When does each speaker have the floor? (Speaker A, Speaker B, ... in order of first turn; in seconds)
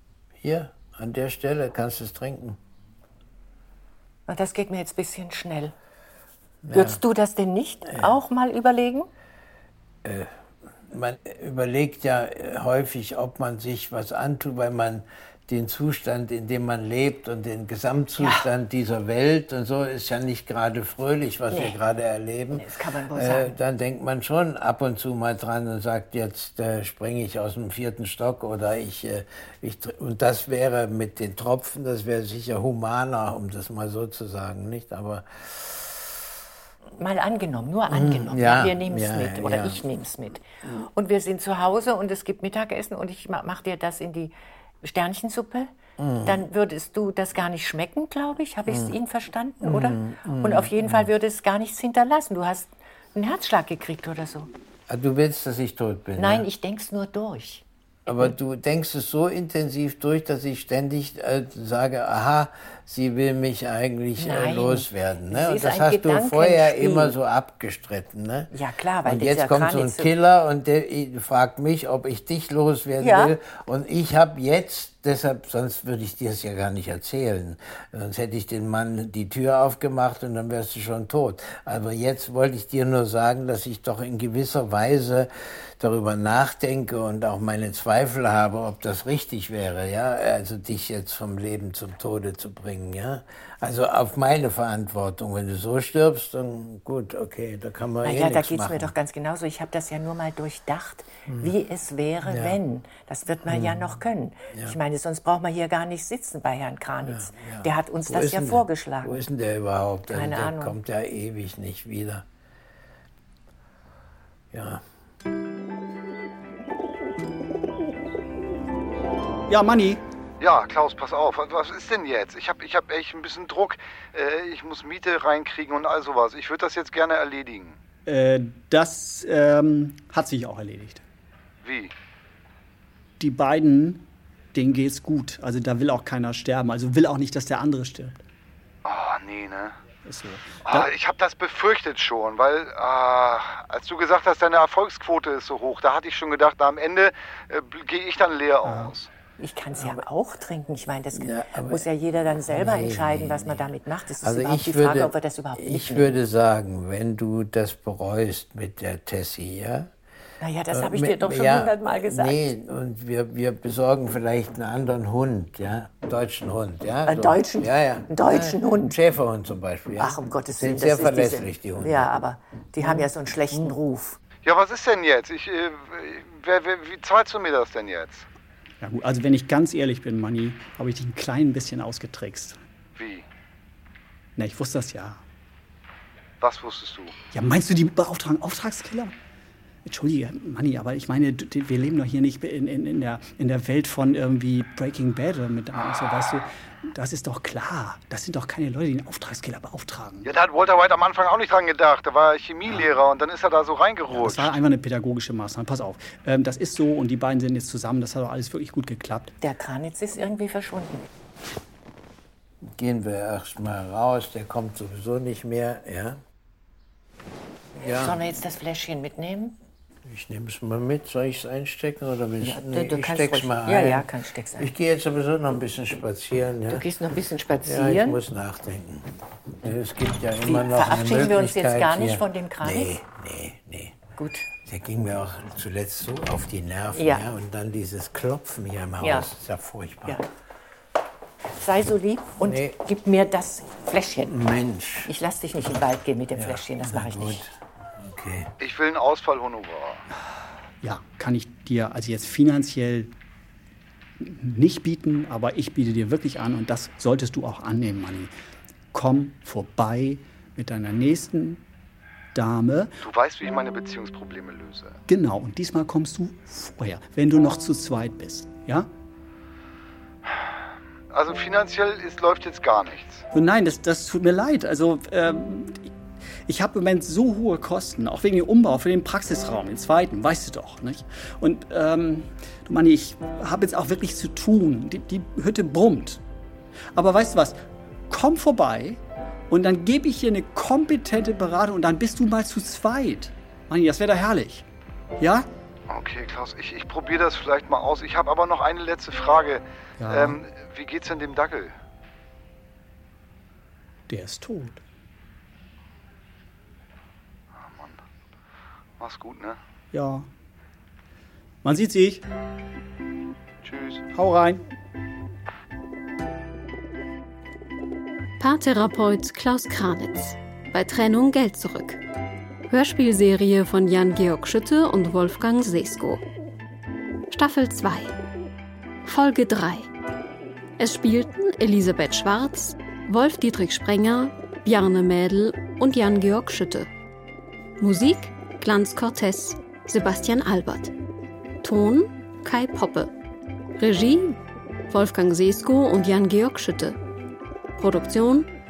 Speaker A: 0.4-2.6, 6.7-7.0, 10.9-35.8, 37.9-39.8, 46.0-46.4, 48.7-49.0, 49.6-51.1, 54.9-56.5, 58.1-68.5, 69.0-98.9, 101.3-101.5, 102.2-102.6, 103.5-104.0, 107.0-112.2, 114.5-114.8, 151.1-151.9, 152.5-159.9, 160.7-172.1, 212.7-216.2, 217.8-218.2, 220.1-226.9, 227.6-229.1, 229.6-234.0, 234.7-240.2, 242.4-242.8, 244.2-245.1, 246.3-247.5, 248.0-248.5
Speaker B: 4.3-5.7, 6.7-9.1, 18.2-18.5, 21.5-21.8, 22.5-23.6, 37.0-45.7, 46.2-54.5, 56.2-58.3, 64.2-67.2, 68.5-70.1, 73.0-73.3, 98.0-109.3, 110.1-110.8, 149.4-156.2, 160.4-162.5, 167.1-169.0, 170.0-174.2, 209.4-211.1, 217.8-219.6, 222.4-224.7, 226.7-228.2, 230.4-232.9, 234.2-234.5, 236.9-237.3, 239.0-239.3, 241.5-244.4, 245.1-247.5
Speaker C: 119.5-120.0, 128.1-131.0, 133.2-138.2, 140.1-140.9, 148.6-149.0, 178.8-182.6, 184.4-185.2, 187.3-189.2, 189.9-200.3, 204.1-209.3, 250.8-253.1, 254.2-258.3, 258.9-261.6, 262.3-262.9, 265.1-268.9, 273.3-275.9, 276.5-286.2, 286.9-287.6, 288.1-294.6, 295.2-295.5, 300.0-300.4, 304.1-304.8, 309.9-310.3, 311.6-312.2, 314.1-314.6
Speaker D: 120.4-127.8, 131.6-131.9, 138.8-139.8, 140.7-149.1, 174.4-178.3, 183.0-183.2, 186.4-187.1, 200.2-204.6, 248.6-250.1, 263.0-265.0, 271.1-273.2, 295.9-301.7, 307.6-308.0, 309.0-309.6, 313.6-314.1
Speaker E: 318.4-322.0, 322.7-326.2, 327.3-328.1, 329.0-329.9, 330.8-336.9, 337.8-340.9, 341.6-343.1, 343.8-344.4, 344.9-347.0, 347.8-348.5